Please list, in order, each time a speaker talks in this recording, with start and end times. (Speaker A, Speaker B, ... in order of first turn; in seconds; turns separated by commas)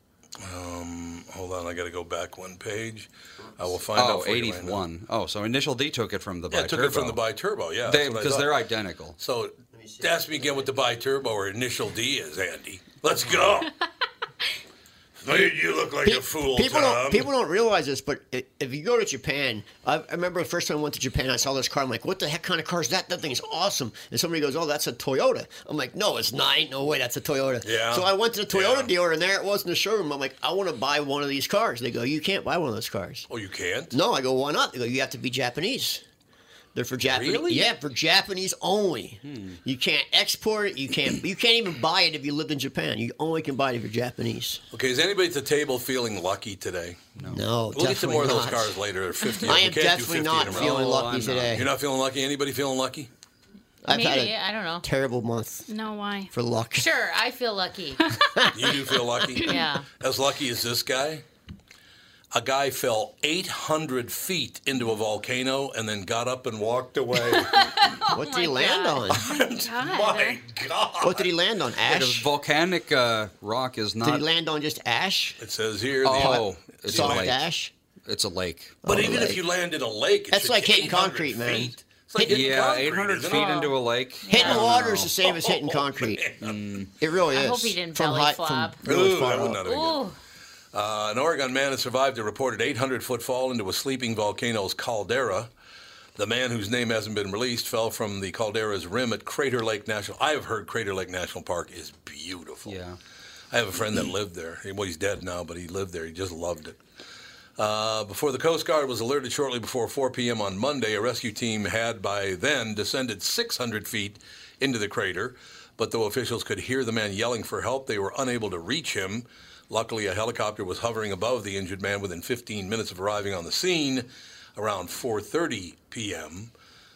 Speaker A: 0.4-4.8, Speaker B: 4.0-7.2, Speaker A: 6.5-8.6, Speaker B: 7.8-9.2, Speaker A: 9.2-13.7, Speaker C: 9.7-10.7, Speaker A: 15.2-17.3, Speaker C: 16.0-33.3, Speaker A: 27.6-28.9, Speaker A: 33.3-34.0, Speaker C: 33.9-36.0, Speaker C: 36.8-44.6, Speaker A: 37.0-37.7, Speaker B: 39.2-39.6, Speaker A: 44.7-47.0, Speaker B: 47.2-47.4, Speaker C: 47.3-48.8, Speaker A: 47.7-50.9, Speaker C: 49.4-51.7, Speaker B: 50.4-51.6, Speaker A: 51.5-53.1, Speaker C: 53.8-55.6, Speaker D: 53.9-54.9, Speaker E: 55.7-56.3, Speaker C: 56.3-56.9, Speaker D: 56.8-58.0, Speaker A: 58.5-61.2, Speaker E: 59.4-59.6, Speaker D: 59.4-59.9, Speaker A: 62.3-67.7, Speaker D: 67.5-69.1, Speaker C: 68.1-69.2, Speaker A: 69.1-71.3, Speaker E: 69.2-70.4, Speaker C: 71.0-72.3, Speaker B: 71.8-74.2, Speaker C: 74.0-75.4, Speaker A: 75.4-77.3, Speaker B: 76.0-77.4, Speaker C: 76.1-77.7, Speaker B: 78.1-78.8, Speaker C: 78.8-79.4, Speaker A: 78.9-83.6, Speaker C: 80.3-82.5, Speaker B: 82.2-85.1, Speaker D: 83.3-84.9, Speaker C: 84.3-86.3, Speaker A: 84.4-86.7, Speaker B: 86.4-86.9, Speaker C: 87.0-89.6, Speaker D: 87.3-88.8, Speaker A: 88.8-90.0, Speaker D: 89.6-90.2, Speaker A: 90.7-95.5, Speaker A: 96.2-102.8, Speaker B: 102.7-103.0, Speaker A: 103.5-106.8, Speaker A: 107.6-126.5